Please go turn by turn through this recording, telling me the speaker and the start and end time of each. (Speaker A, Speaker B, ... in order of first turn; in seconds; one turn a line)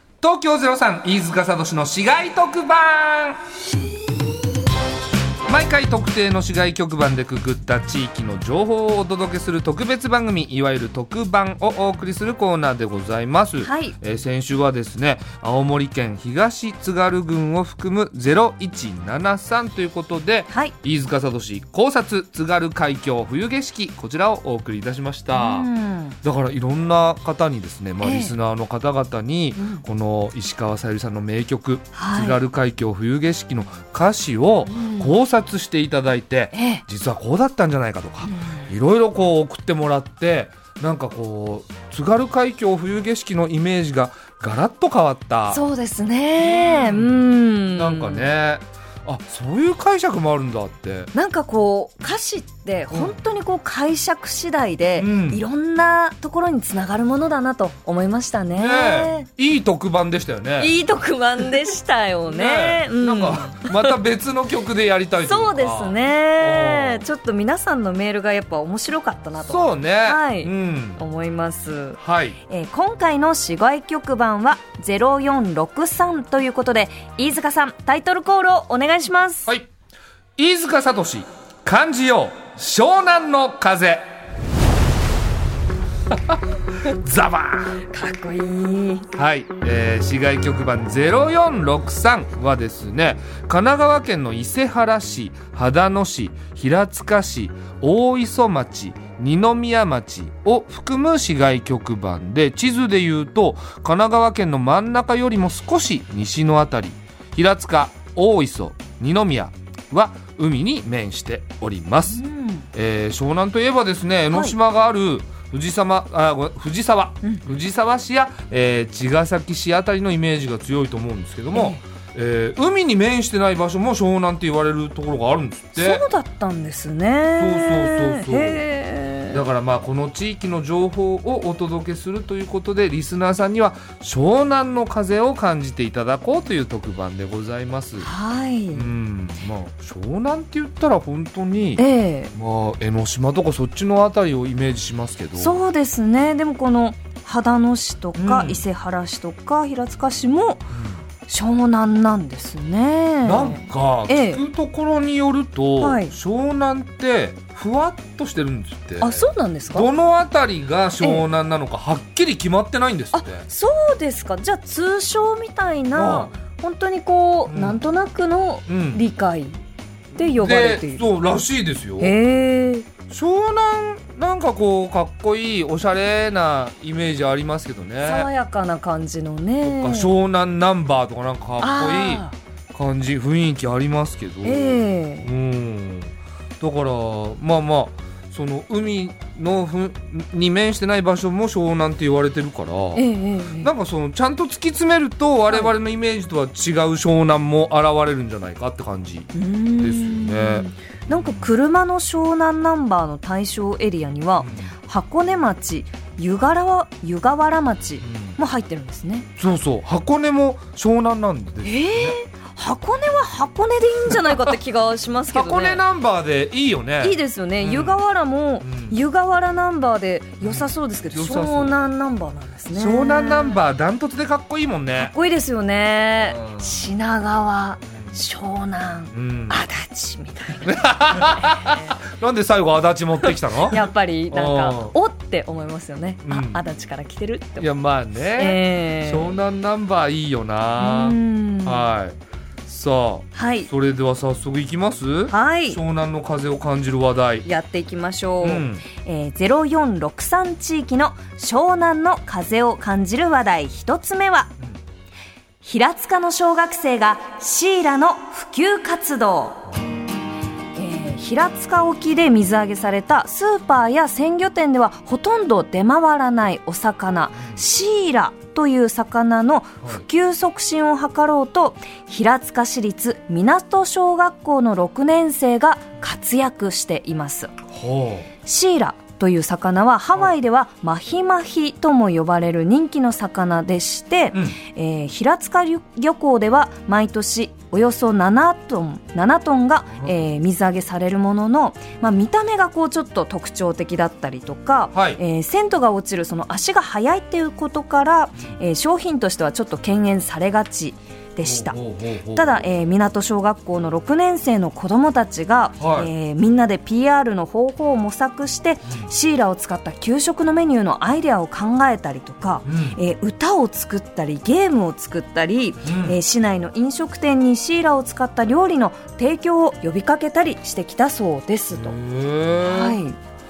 Speaker A: 0.2-3.4
Speaker A: 5.5-25.7
Speaker B: 13.6-14.0
Speaker B: 25.3-26.2
Speaker A: 26.2-45.6
Speaker B: 28.0-28.3
Speaker B: 29.6-29.8
Speaker B: 31.9-32.4
Speaker B: 34.7-35.2
Speaker B: 36.5-36.8
Speaker B: 38.2-38.7
Speaker B: 45.5-48.3
Speaker A: 46.4-47.2
Speaker A: 47.8-51.1
Speaker B: 51.1-59.3
Speaker A: 52.9-53.2
Speaker A: 55.0-55.4
Speaker A: 58.6-60.7
Speaker B: 60.6-64.0
Speaker A: 62.3-67.0
Speaker B: 65.2-79.5
Speaker A: 69.4-71.0
Speaker A: 72.0-72.4
Speaker A: 80.4-84.1
Speaker A: 86.1-87.8
Speaker B: 87.9-89.1
Speaker A: 89.1-112.2
Speaker B: 112.1-112.7
Speaker A: 112.7-126.0
Speaker B: 114.3-114.6
Speaker B: 121.5-121.8
Speaker B: 125.8-129.4
Speaker A: 127.4-128.6
Speaker A: 129.3-138.1
Speaker B: 138.0-138.9
Speaker A: 138.7-141.8
Speaker B: 141.8-142.3
Speaker A: 142.3-145.6
Speaker B: 145.4-150.7
Speaker A: 148.2-148.6
Speaker A: 150.7-151.0
Speaker B: 151.3-154.4
Speaker A: 153.2-163.5
Speaker B: 155.8-156.1
Speaker B: 159.0-159.9
Speaker B: 163.1-169.6
Speaker A: 165.9-166.3
Speaker A: 167.5-167.8
Speaker A: 168.7-169.1
Speaker A: 170.2-172.1
Speaker B: 170.2-171.1
Speaker B: 172.0-172.9
Speaker A: 173.1-178.3
Speaker B: 178.0-180.1
Speaker A: 179.6-193.1
Speaker B: 181.6-182.3
Speaker B: 184.4-185.3
Speaker B: 192.9-193.7
Speaker A: 193.6-201.5
Speaker B: 199.3-209.3
Speaker A: 204.4-204.7
Speaker A: 208.0-208.4
Speaker A: 209.4-212.2
Speaker B: 211.6-215.8
Speaker A: 215.3-218.0
Speaker B: 217.0-223.6
Speaker A: 218.6-219.0
Speaker A: 220.4-221.8
Speaker A: 222.7-225.1
Speaker B: 225.0-232.0
Speaker A: 226.3-226.7
Speaker A: 229.1-229.6
Speaker A: 230.6-234.9
Speaker B: 233.7-237.7
Speaker A: 236.2-236.6
Speaker A: 237.6-247.5
Speaker B: 238.4-239.3
Speaker B: 240.8-241.9
Speaker B: 243.3-243.7
Speaker B: 245.3-245.8
Speaker B: 247.4-254.5
Speaker A: 248.4-248.8
Speaker B: 255.6-259.7
Speaker B: 260.8-277.5
Speaker A: 277.7-278.3
Speaker B: 278.4-301.8
Speaker A: 294.9-295.2
Speaker A: 301.4-302.5
Speaker B: 302.3-322.0
Speaker A: 305.8-306.1
Speaker A: 312.7-313.0
Speaker A: 315.8-316.2
Speaker A: 321.7-323.0
Speaker B: 322.6-323.2